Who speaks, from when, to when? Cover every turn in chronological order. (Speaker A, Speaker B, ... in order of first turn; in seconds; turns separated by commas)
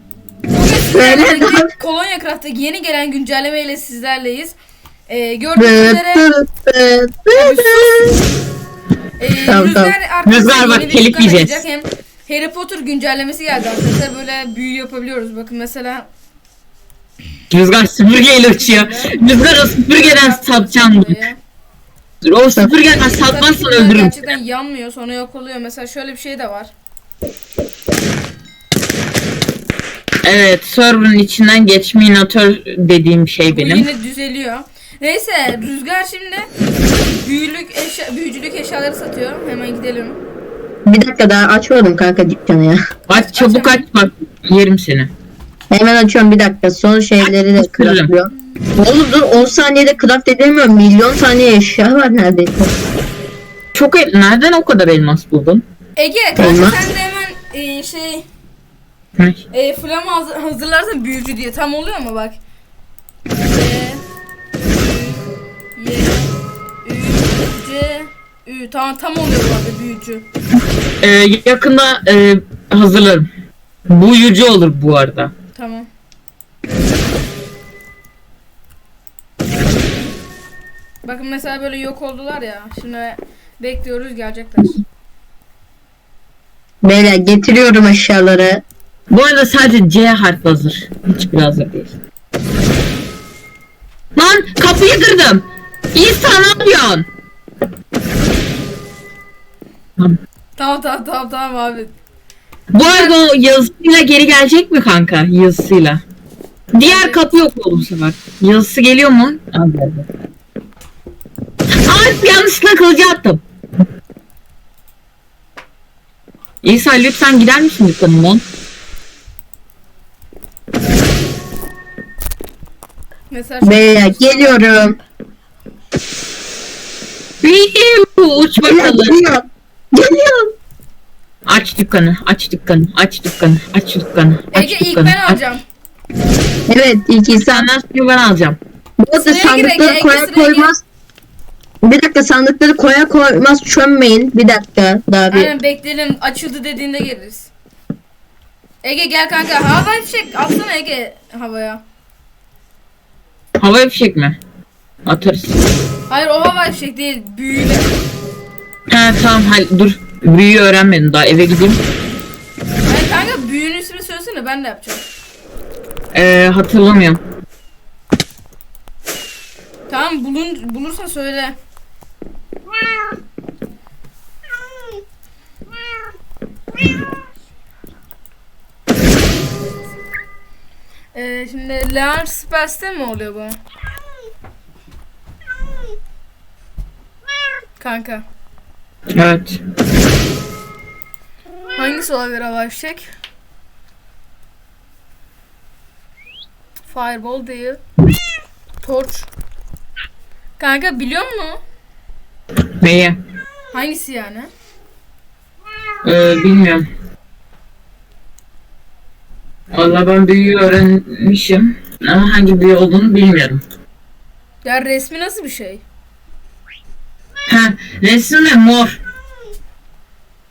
Speaker A: 0.5-4.6, Speaker B: 0.9-1.7, Speaker A: 5.1-6.3, Speaker B: 5.6-8.2, Speaker A: 7.3-8.1, Speaker A: 9.2-16.1, Speaker B: 9.5-9.9, Speaker C: 10.2-11.6, Speaker C: 17.5-21.2, Speaker A: 18.4-19.2, Speaker A: 19.9-21.4, Speaker C: 22.2-24.3, Speaker A: 23.1-26.7, Speaker C: 30.2-33.9, Speaker A: 33.5-36.5, Speaker A: 37.0-40.2, Speaker B: 40.9-42.8, Speaker C: 43.1-45.1, Speaker A: 43.1-43.8, Speaker B: 45.7-52.7, Speaker C: 47.2-48.1, Speaker C: 53.7-55.6, Speaker A: 56.0-58.3, Speaker B: 56.4-56.9, Speaker C: 59.2-59.4, Speaker A: 59.5-62.4, Speaker A: 63.4-64.0, Speaker A: 64.8-65.2, Speaker A: 65.8-66.3, Speaker A: 66.8-70.2, Speaker C: 71.0-73.3, Speaker C: 73.9-75.3, Speaker A: 75.5-75.9, Speaker A: 81.0-84.8, Speaker B: 86.8-88.6, Speaker C: 89.1-92.0, Speaker C: 94.2-97.1, Speaker A: 100.6-101.9, Speaker C: 102.7-106.0, Speaker A: 102.8-103.2, Speaker C: 106.7-110.1, Speaker A: 106.8-107.2, Speaker C: 111.8-113.4, Speaker C: 116.6-118.4, Speaker A: 123.3-124.7, Speaker B: 123.6-125.0, Speaker C: 127.4-129.2, Speaker B: 128.6-130.5, Speaker C: 131.5-135.4, Speaker A: 134.5-135.6, Speaker B: 136.7-137.7, Speaker C: 137.5-138.6, Speaker B: 139.0-140.8, Speaker A: 139.2-140.7, Speaker B: 141.8-145.5, Speaker A: 145.3-147.5, Speaker A: 148.8-151.8, Speaker C: 153.6-154.4, Speaker C: 155.1-155.6, Speaker A: 156.1-157.9, Speaker C: 158.9-161.8, Speaker A: 162.9-165.0, Speaker C: 166.1-167.2, Speaker A: 169.9-171.6, Speaker A: 181.1-183.6, Speaker A: 187.8-188.2, Speaker C: 189.2-189.6, Speaker A: 191.8-193.1, Speaker A: 196.9-197.8, Speaker A: 198.8-199.3, Speaker A: 200.6-201.6, Speaker C: 202.8-203.2, Speaker A: 203.7-204.5, Speaker C: 206.0-206.9, Speaker C: 209.7-213.6, Speaker A: 214.6-215.8, Speaker C: 217.5-219.0